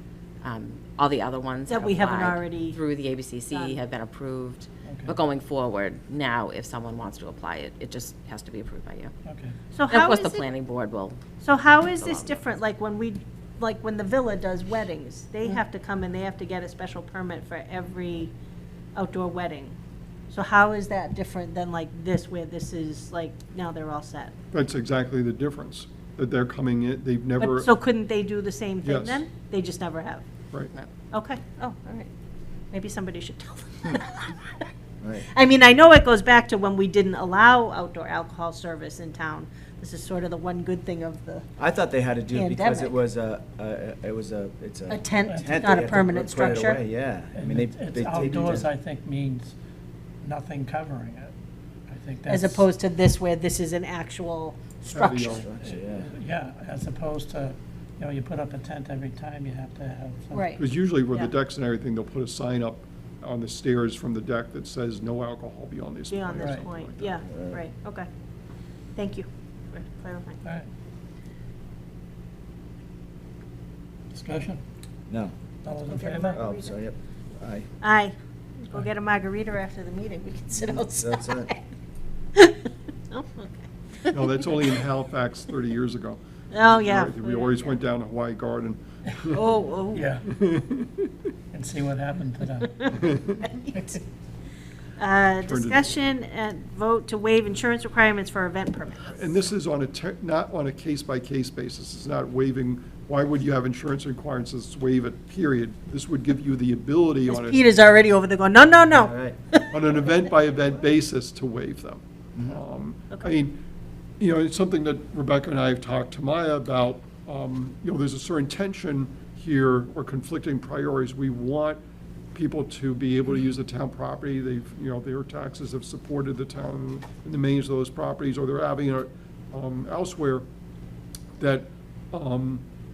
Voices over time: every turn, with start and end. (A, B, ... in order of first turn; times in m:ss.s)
0:00.4-0:09.1 A
0:01.7-0:02.8 B
0:03.5-0:03.8 B
0:04.8-0:05.2 C
0:09.2-0:09.5 C
0:09.7-0:10.5 B
0:09.9-0:11.2 A
0:11.4-0:18.3 B
0:12.0-0:12.5 A
0:19.0-0:19.8 B
0:20.3-0:24.3 B
0:24.5-0:27.7 D
0:27.4-0:30.2 B
0:28.8-0:29.2 D
0:31.1-0:32.1 B
0:32.7-0:34.7 B
0:35.2-0:41.5 B
0:41.6-0:48.7 E
0:42.3-0:43.0 B
0:44.9-0:46.8 B
0:45.2-0:46.8 C
0:47.4-0:49.6 C
0:50.2-0:51.3 C
0:51.9-0:52.7 C
0:52.3-0:55.4 B
0:54.9-0:55.5 D
0:55.4-0:56.1 E
0:55.6-1:00.6 C
1:00.3-1:00.6 B
1:00.6-1:07.2 D
1:06.1-1:08.1 B
1:06.4-1:06.7 C
1:07.3-1:07.6 E
1:09.0-1:10.4 B
1:14.1-1:14.6 C
1:15.1-1:15.4 E
1:15.6-1:16.5 C
1:15.9-1:16.7 B
1:16.3-1:17.7 E
1:17.8-1:21.6 B
1:20.5-1:21.5 E
1:22.4-1:24.3 B
1:24.1-1:29.4 D
1:26.5-1:27.7 B
1:29.3-1:30.1 B
1:29.9-1:30.3 C
1:30.3-1:31.1 D
1:31.5-1:33.2 C
1:32.9-1:33.4 D
1:33.5-1:33.8 B
1:33.7-1:34.0 C
1:35.0-1:39.4 B
1:35.4-1:35.9 D
1:39.0-1:47.6 D
1:47.3-1:49.8 B
1:49.0-1:49.4 E
1:49.7-1:53.6 D
1:54.2-2:01.8 D
2:02.3-2:10.4 D
2:11.4-2:12.6 D